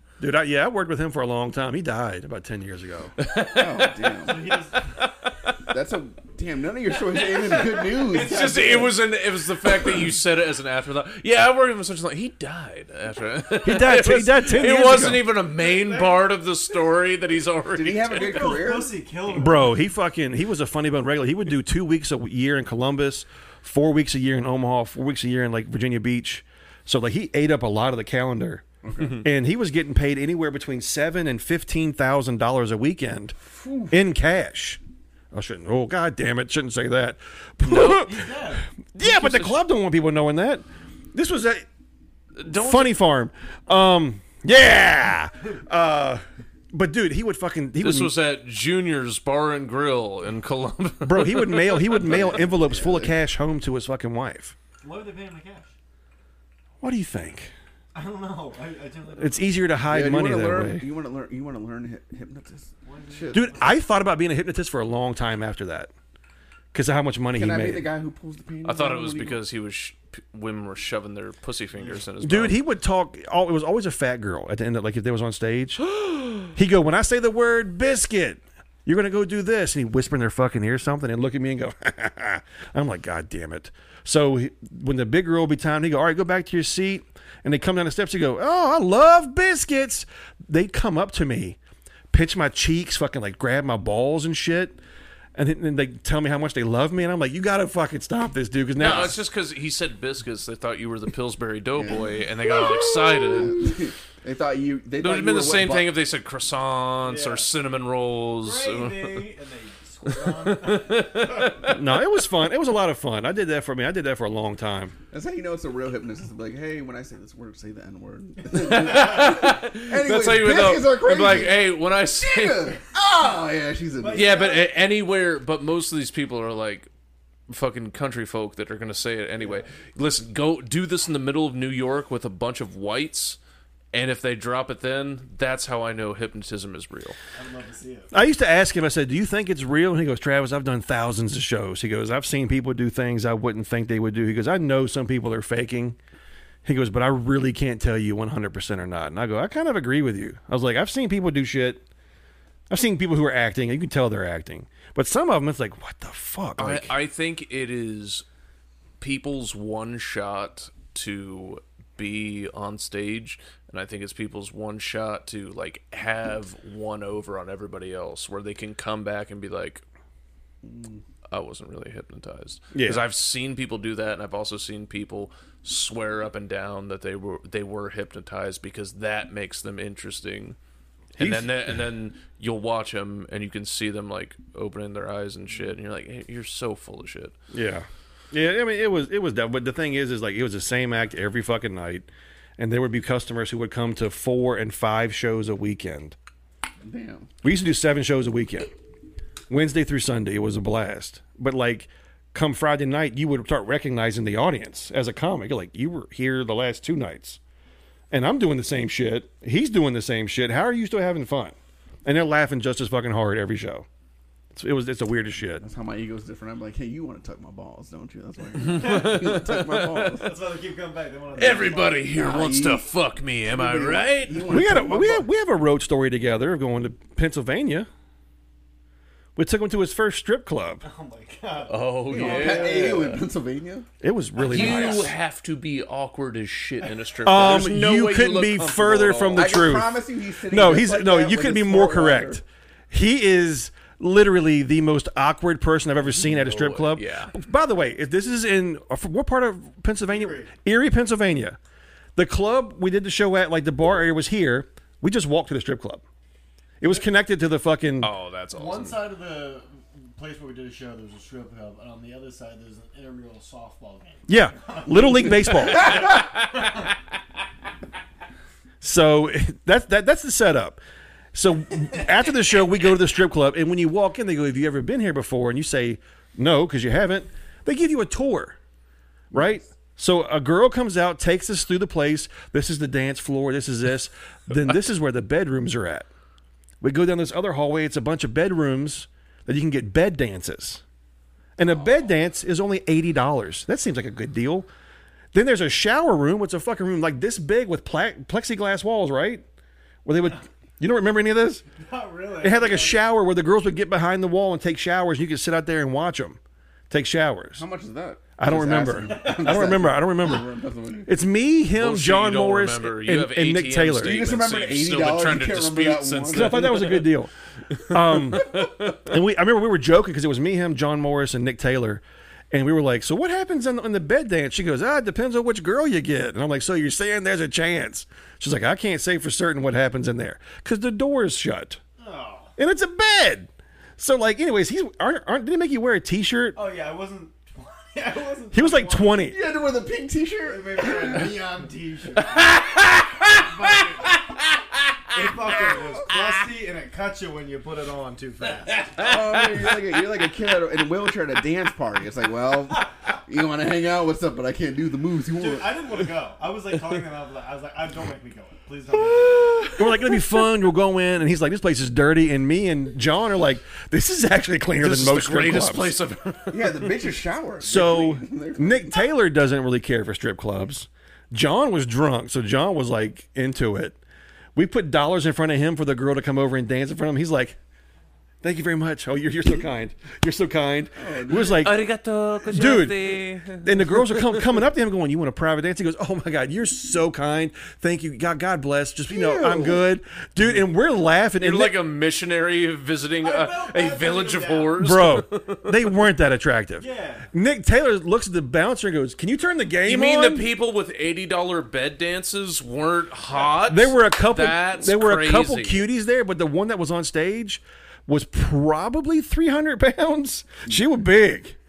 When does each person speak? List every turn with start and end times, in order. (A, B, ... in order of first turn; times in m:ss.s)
0:00.2-0:03.1 A
0:03.2-0:05.6 B
0:03.5-0:04.4 C
0:04.2-0:05.0 D
0:05.6-0:09.0 C
0:07.5-0:08.9 D
0:08.0-0:18.4 B
0:13.6-0:15.3 A
0:15.6-0:16.2 D
0:17.7-0:18.9 C
0:18.1-0:19.8 D
0:19.3-0:33.4 A
0:28.8-0:29.2 C
0:33.6-0:33.9 C
0:33.9-0:34.8 A
0:35.3-0:41.6 A
0:37.6-0:38.1 B
0:37.9-0:38.7 D
0:39.0-0:39.6 B
0:42.4-0:43.0 B
0:42.4-0:48.1 A
0:47.8-0:52.3 B
0:51.0-0:54.6 A
0:52.0-0:53.2 C
0:54.8-0:55.7 D
0:56.8-0:57.5 A
0:57.9-0:59.6 D
0:59.2-1:00.9 A
0:59.9-1:03.5 C
1:02.8-1:03.7 D
1:03.3-1:05.9 A
1:06.7-1:07.9 A
1:07.4-1:09.4 C
1:08.6-1:12.6 B
1:12.2-1:31.6 A
1:32.1-1:34.8 A
1:35.4-1:39.2 A
1:38.8-1:43.6 B
1:41.8-1:45.9 C
1:45.0-1:49.3 B
1:47.0-1:47.5 D
1:48.4-1:51.7 D
1:50.1-1:51.8 B
1:51.6-1:54.9 A
1:55.1-2:04.3 C
1:58.5-2:02.8 B
1:58.7-1:59.1 D
2:04.0-2:04.7 D
2:04.1-2:06.9 B
2:07.5-2:13.4 B
2:13.9-2:17.2 B
2:17.3-2:18.1 D
2:18.1-2:26.0 A
2:26.6-2:31.8 A
2:32.7-2:36.9 A
2:36.6-2:38.2 B
2:39.0-2:49.8 B
2:50.6-2:51.0 C
2:51.3-3:00.6 B
2:52.7-2:53.0 A
3:01.2-3:07.3 B
3:01.2-3:01.5 A
3:07.5-3:12.1 A
3:12.6-3:16.2 A
3:16.8-3:17.3 C
3:17.4-3:18.7 A
3:19.5-3:27.4 A
3:28.1-3:33.9 A
3:34.5-3:35.6 A
3:35.6-3:40.4 C
3:38.6-3:40.2 B
3:38.7-3:39.2 D
3:40.2-3:42.2 D
3:41.4-3:44.6 B
3:41.5-3:42.9 C
3:43.5-3:45.3 C
3:44.5-3:47.9 A
3:49.4-3:50.8 A
3:50.8-3:52.9 D
3:51.7-3:53.2 B
3:52.1-3:53.9 C
3:54.0-3:55.1 A
3:54.4-3:59.7 B
3:54.4-3:55.1 D
3:54.5-3:55.0 C
3:57.2-4:00.0 A
3:59.3-4:02.4 C
4:00.5-4:11.6 A
4:06.2-4:07.3 B
4:10.1-4:10.5 D
4:12.2-4:16.0 A
4:16.8-4:18.1 A
4:18.0-4:19.0 B
4:18.5-4:26.9 D
4:24.3-4:26.1 A
4:25.8-4:26.8 B
4:28.8-4:30.8 A
4:31.3-4:38.6 A
4:39.3-4:46.1 A
4:46.8-4:50.8 A
4:51.6-4:54.7 A
4:55.3-4:59.4 A
5:00.0-5:01.7 A
5:01.8-5:03.0 D
5:02.4-5:06.4 A
5:06.9-5:07.7 A
5:07.6-5:11.1 C
5:08.4-5:10.5 A
5:09.1-5:09.6 D
5:11.1-5:14.2 A
5:11.8-5:17.1 B
5:14.0-5:16.9 C
5:16.3-5:17.3 A
5:17.7-5:19.0 B
5:17.9-5:31.8 A
5:32.0-5:32.5 D
5:32.6-5:36.6 A
5:36.6-5:39.2 D
5:38.5-5:39.4 A
5:39.3-5:41.4 C
5:40.4-5:44.3 D
5:42.2-5:45.8 B
5:45.1-5:49.2 D
5:48.8-5:49.8 B
5:49.0-5:55.8 C
5:55.4-5:59.8 D
5:59.7-6:06.0 A
6:04.8-6:07.0 B
6:06.5-6:09.1 C
6:07.6-6:14.0 A
6:14.6-6:17.6 A
6:18.4-6:21.8 A
6:21.0-6:21.8 C
6:21.4-6:24.5 B
6:22.5-6:31.8 A
6:29.1-6:29.9 C
6:31.4-6:35.8 B
6:33.2-6:34.8 D
6:34.8-6:40.5 A
6:36.8-6:37.3 D
6:39.8-6:45.9 B
6:43.7-6:51.6 A